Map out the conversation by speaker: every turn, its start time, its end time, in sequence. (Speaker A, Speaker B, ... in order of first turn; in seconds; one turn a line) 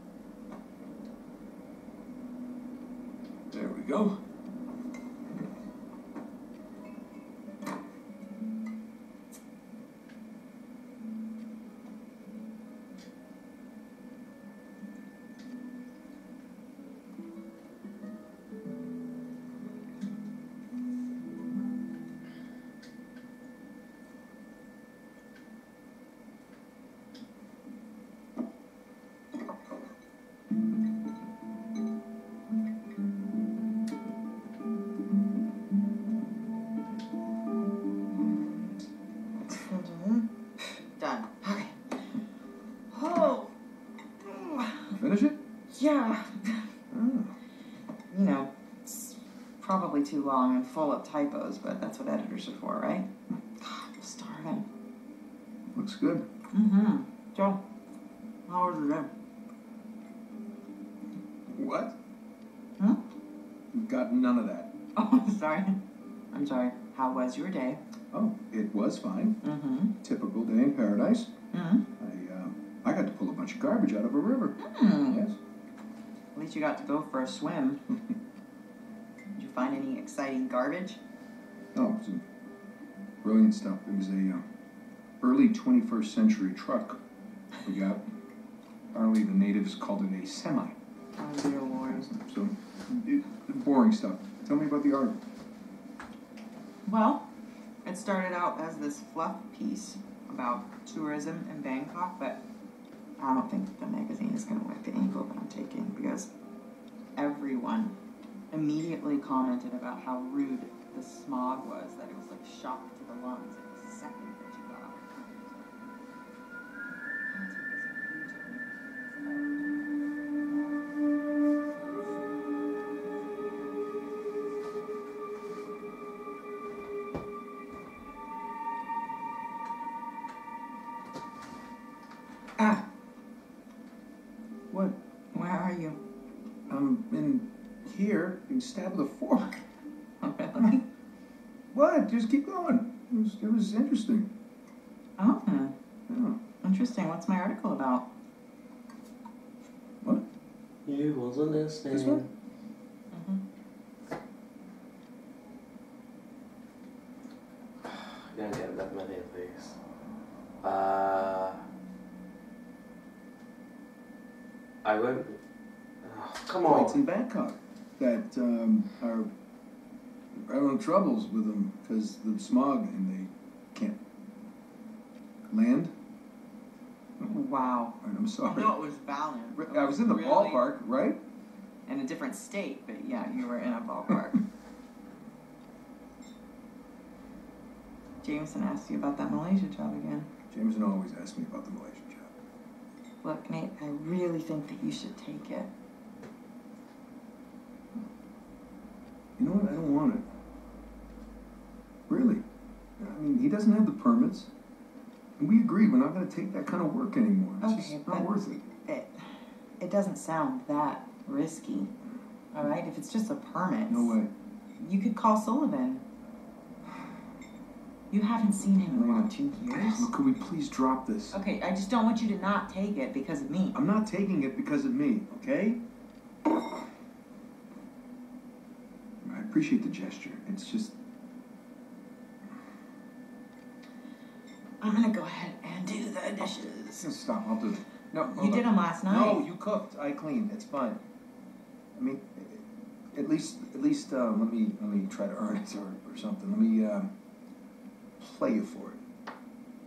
Speaker A: 3.5-4.2
Speaker B: 39.5-42.0
Speaker B: 42.9-43.5
Speaker B: 44.2-45.0
Speaker A: 44.9-45.4
Speaker B: 45.7-46.7
Speaker A: 46.9-47.3
Speaker B: 48.1-54.6
Speaker A: 55.7-56.3
Speaker B: 56.5-57.6
Speaker B: 58.5-59.1
Speaker A: 61.5-62.0
Speaker A: 63.7-64.7
Speaker B: 64.9-65.8
Speaker B: 66.3-67.8
Speaker A: 68.1-69.4
Speaker B: 69.4-69.9
Speaker A: 70.0-71.3
Speaker B: 71.5-71.8
Speaker A: 72.0-74.5
Speaker B: 74.6-75.2
Speaker A: 75.1-75.4
Speaker B: 76.3-77.8
Speaker B: 79.3-81.0
Speaker A: 81.7-82.2
Speaker A: 83.2-84.4
Speaker A: 85.2-87.0
Speaker A: 87.6-88.0
Speaker A: 88.9-90.8
Speaker B: 91.2-92.1
Speaker A: 91.9-95.2
Speaker B: 96.8-97.3
Speaker B: 97.8-102.4
Speaker B: 103.2-106.3
Speaker B: 107.2-107.9
Speaker B: 108.5-115.7
Speaker B: 117.3-119.6
Speaker A: 132.6-132.8
Speaker A: 134.7-135.0
Speaker B: 135.3-136.0
Speaker A: 136.7-139.6
Speaker B: 140.2-140.8
Speaker A: 141.7-144.3
Speaker B: 145.2-145.7
Speaker A: 146.1-146.4
Speaker B: 146.6-148.1
Speaker C: 150.8-152.2
Speaker A: 151.9-152.2
Speaker B: 153.1-153.4
Speaker C: 157.8-159.7
Speaker C: 160.6-161.6
Speaker C: 164.8-165.3
Speaker C: 166.0-167.0
Speaker A: 166.6-169.3
Speaker A: 170.3-174.0
Speaker A: 175.5-175.9
Speaker B: 177.2-180.6
Speaker A: 178.0-178.8
Speaker A: 179.6-181.2
Speaker B: 181.9-184.4
Speaker B: 188.2-190.3
Speaker A: 190.5-192.3
Speaker B: 193.2-195.7
Speaker A: 199.4-200.2
Speaker A: 202.1-202.4
Speaker A: 203.0-204.5
Speaker A: 205.4-208.6
Speaker B: 207.6-208.3
Speaker B: 208.8-211.9
Speaker B: 212.5-214.1
Speaker A: 213.9-214.3
Speaker B: 214.8-216.0
Speaker B: 218.1-220.1
Speaker A: 218.9-221.4
Speaker B: 221.3-223.8
Speaker A: 223.7-225.8
Speaker A: 229.2-230.9
Speaker B: 234.8-237.1
Speaker A: 237.0-241.0
Speaker B: 238.2-239.4
Speaker A: 241.9-247.1
Speaker A: 248.2-249.0